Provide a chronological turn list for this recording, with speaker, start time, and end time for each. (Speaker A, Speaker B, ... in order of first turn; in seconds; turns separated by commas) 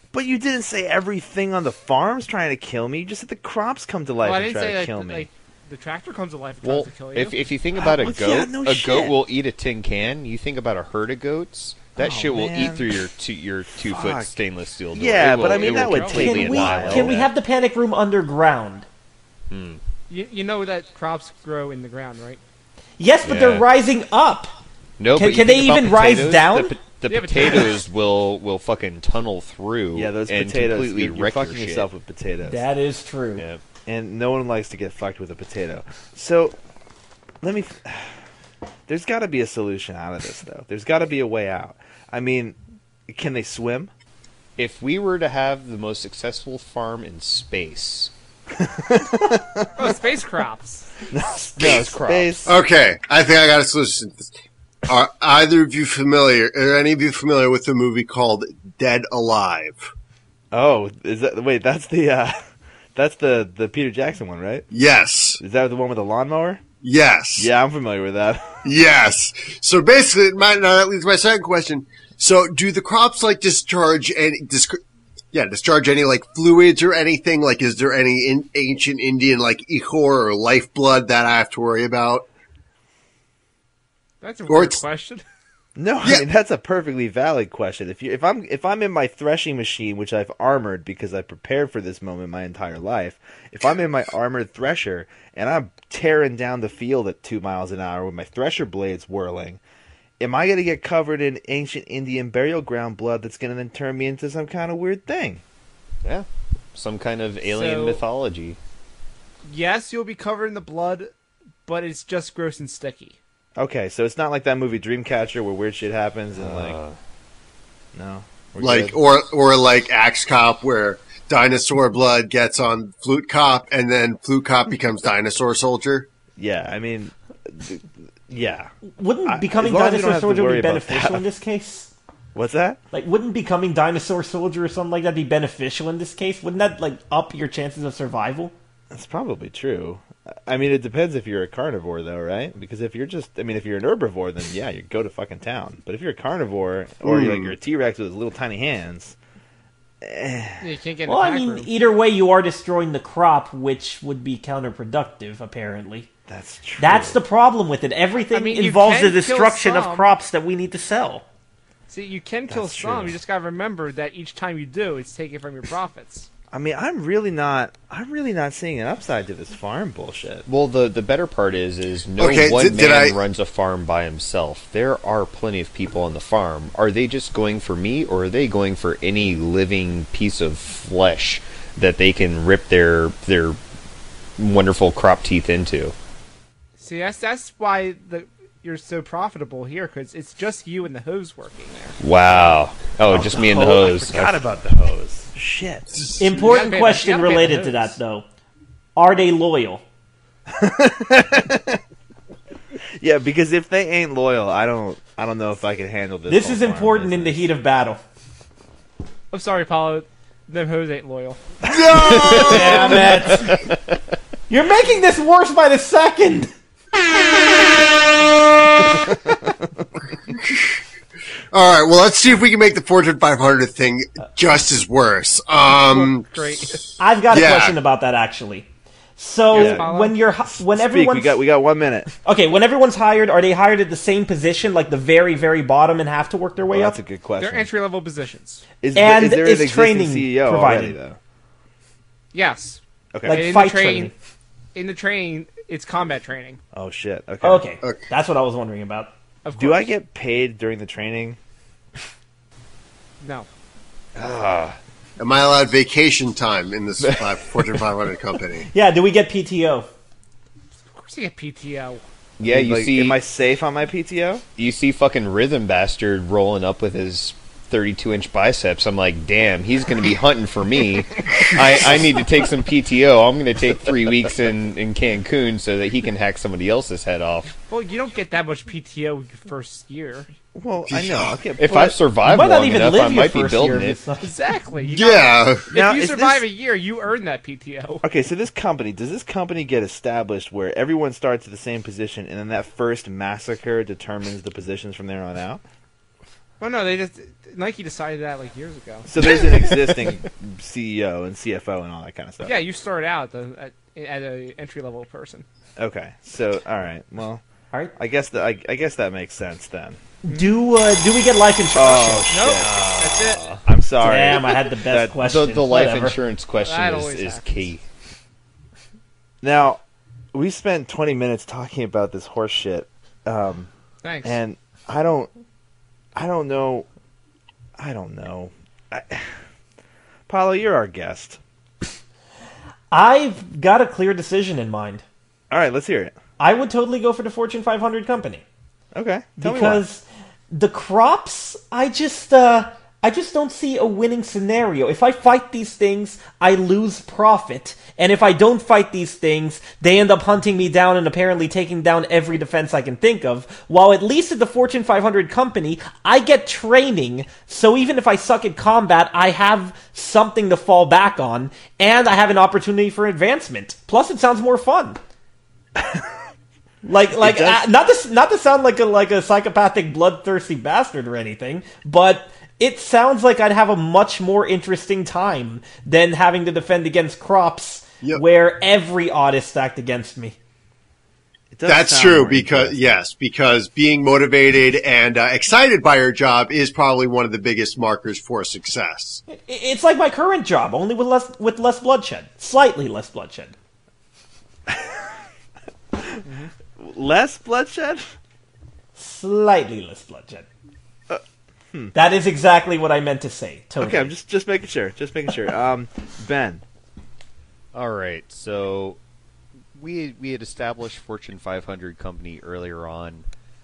Speaker A: 0.1-5.3, Speaker B: 4.2-7.3, Speaker C: 6.6-17.3, Speaker A: 7.7-9.2, Speaker A: 12.0-13.0, Speaker A: 13.8-14.3, Speaker A: 14.9-17.3, Speaker B: 15.5-16.2, Speaker D: 16.0-18.9, Speaker C: 19.5-19.8, Speaker B: 20.1-22.4, Speaker D: 23.0-24.5, Speaker C: 23.2-23.6, Speaker C: 25.0-31.9, Speaker D: 25.1-26.8, Speaker B: 27.1-27.8, Speaker A: 29.9-32.6, Speaker D: 32.5-33.4, Speaker A: 33.9-36.5, Speaker A: 37.4-38.2, Speaker A: 38.9-42.6, Speaker A: 43.1-43.9, Speaker C: 44.6-48.1, Speaker A: 48.5-49.7, Speaker B: 49.8-50.9, Speaker A: 51.1-52.6, Speaker C: 51.6-52.3, Speaker E: 52.4-54.3, Speaker E: 54.9-59.9, Speaker A: 60.5-62.4, Speaker A: 62.9-64.7, Speaker E: 64.7-65.4, Speaker A: 65.4-66.6, Speaker E: 66.8-67.5, Speaker A: 67.4-68.6, Speaker E: 68.6-74.8, Speaker E: 75.3-82.3, Speaker B: 84.2-85.2, Speaker E: 84.5-84.8, Speaker A: 85.8-99.6, Speaker A: 100.2-105.4, Speaker C: 106.0-108.6, Speaker B: 107.4-108.0, Speaker B: 109.4-111.1, Speaker B: 111.7-113.2, Speaker A: 113.6-116.8, Speaker C: 116.4-117.0, Speaker A: 117.9-119.0, Speaker E: 118.6-126.1, Speaker A: 126.4-128.7, Speaker D: 128.9-131.9, Speaker A: 129.2-131.2, Speaker A: 132.3-132.8, Speaker D: 132.9-138.5, Speaker A: 138.9-149.2, Speaker E: 147.0-147.5, Speaker A: 150.0-150.6, Speaker B: 150.6-151.7, Speaker D: 151.1-156.1, Speaker A: 156.3-157.2, Speaker D: 156.8-161.2, Speaker B: 158.3-160.1, Speaker B: 161.9-166.3, Speaker A: 162.5-163.1, Speaker A: 166.5-170.4, Speaker C: 170.5-183.6, Speaker E: 172.2-173.2, Speaker C: 184.4-185.9, Speaker B: 186.8-192.0, Speaker C: 192.0-194.4, Speaker A: 193.1-195.9, Speaker E: 196.0-196.3, Speaker D: 196.2-198.2, Speaker B: 196.3-198.0, Speaker D: 198.9-199.8, Speaker A: 200.5-201.8, Speaker A: 203.0-207.4, Speaker D: 206.3-208.0, Speaker B: 209.3-211.4, Speaker A: 211.6-213.0, Speaker E: 211.7-213.0, Speaker C: 212.0-214.0, Speaker D: 212.4-213.7, Speaker D: 214.5-216.5, Speaker E: 220.3-220.8, Speaker E: 221.5-226.3, Speaker B: 225.7-226.8, Speaker D: 227.0-231.4, Speaker E: 227.3-227.8, Speaker B: 229.5-230.2, Speaker A: 229.5-229.9, Speaker A: 230.5-232.1, Speaker D: 232.2-237.0, Speaker A: 236.7-237.7, Speaker B: 237.4-238.6, Speaker A: 238.8-241.2, Speaker D: 238.9-240.9, Speaker B: 242.3-244.1, Speaker A: 243.1-243.4, Speaker D: 243.2-244.1, Speaker B: 244.7-246.6, Speaker A: 246.7-247.7, Speaker D: 247.4-249.1, Speaker B: 249.4-249.9, Speaker A: 249.6-251.4, Speaker B: 253.2-253.5, Speaker C: 254.2-254.8, Speaker E: 255.2-258.7, Speaker D: 258.7-259.9, Speaker B: 260.9-262.0, Speaker C: 262.4-263.2, Speaker A: 262.4-264.4, Speaker C: 264.6-277.6, Speaker B: 277.7-280.3, Speaker A: 280.5-282.0, Speaker E: 280.9-281.4, Speaker C: 281.6-284.0, Speaker D: 282.2-284.3, Speaker B: 284.2-288.0, Speaker E: 284.9-285.6, Speaker A: 285.7-286.4, Speaker A: 288.0-295.6, Speaker B: 296.6-299.1, Speaker A: 299.1-302.6, Speaker B: 302.4-305.4, Speaker A: 305.8-307.4, Speaker A: 308.0-310.0, Speaker D: 310.2-312.5, Speaker A: 311.7-312.8, Speaker B: 312.3-313.5, Speaker C: 312.6-313.6, Speaker A: 313.6-315.2, Speaker D: 314.0-316.2, Speaker C: 315.2-317.8, Speaker B: 316.6-317.7, Speaker A: 319.4-319.8, Speaker A: 320.3-323.7, Speaker B: 324.0-324.4, Speaker A: 324.2-325.3, Speaker A: 326.1-326.9, Speaker A: 327.8-329.4, Speaker A: 330.3-331.4, Speaker D: 332.9-335.0, Speaker A: 335.5-336.1, Speaker D: 336.4-338.4, Speaker A: 338.9-339.8, Speaker D: 339.4-365.0, Speaker A: 365.8-366.1, Speaker D: 366.8-380.4, Speaker A: 367.2-367.6, Speaker A: 381.5-383.0, Speaker E: 381.6-389.2, Speaker D: 389.3-393.5, Speaker A: 394.7-395.0, Speaker A: 395.9-396.2, Speaker B: 396.2-396.5, Speaker A: 396.8-398.1, Speaker D: 398.9-400.4, Speaker A: 401.1-401.9, Speaker D: 401.9-404.1, Speaker A: 403.8-406.6, Speaker C: 407.7-409.0, Speaker C: 409.7-413.2